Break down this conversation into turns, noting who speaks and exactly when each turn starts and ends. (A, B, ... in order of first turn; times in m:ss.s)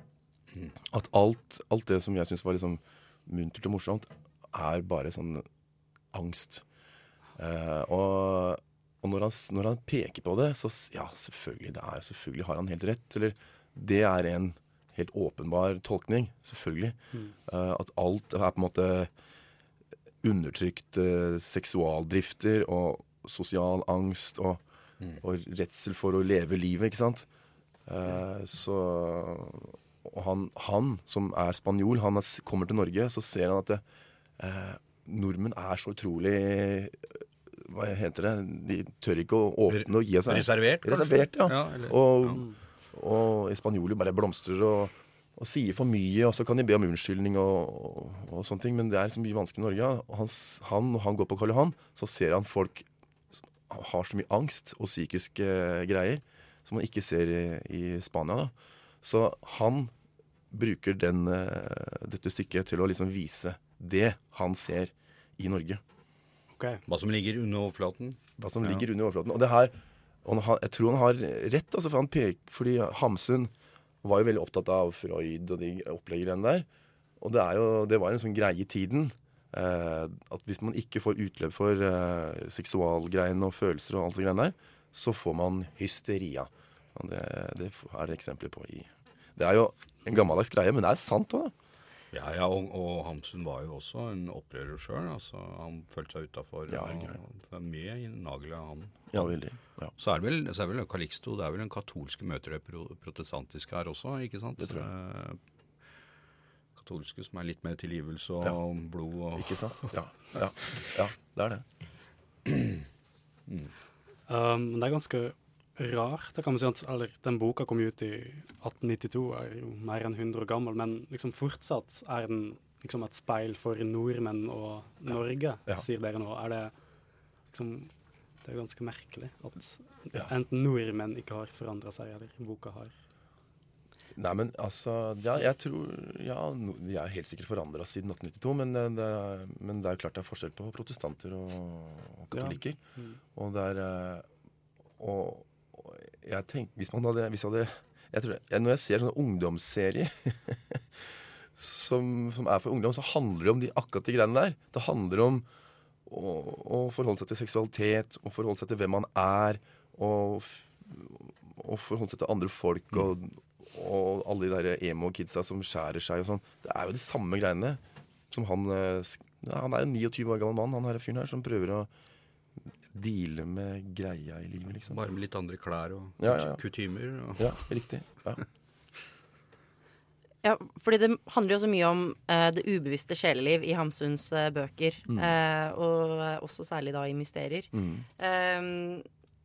0:00.8-0:05.5 A
0:06.1-0:06.6 A
0:07.4-0:19.1 A
0:20.2-0:24.6 A
0:25.2-0:27.3 A
0:27.9-0:33.8 A
0:34.4-0:52.9 A
0:39.7-0:42.4 B
0:53.4-0:59.9 A
1:00.5-1:05.8 A
1:06.6-1:06.8 C
1:06.9-1:08.2 B
1:08.4-1:13.5 A
1:14.0-1:16.7 A
1:17.2-1:31.5 A
1:32.1-1:39.3 B
1:36.7-1:37.2 A
1:39.1-1:39.9 A
1:40.0-1:45.4 B
1:44.6-1:44.9 A
1:46.8-1:49.9 B
1:49.4-1:51.6 A
1:52.5-1:52.8 B
1:54.3-2:06.7 C
2:07.5-2:07.9 C
2:08.4-2:12.9 C
2:14.2-2:22.8 A
2:22.3-2:23.2 C
2:23.3-2:24.3 A
2:25.0-2:35.5 A
2:36.1-2:51.9 A
2:52.9-2:55.0 A
2:54.9-2:57.6 B
2:56.2-2:56.6 A
2:57.4-2:58.4 A
3:00.4-3:09.0 D
3:05.1-3:05.3 A
3:07.7-3:08.1 A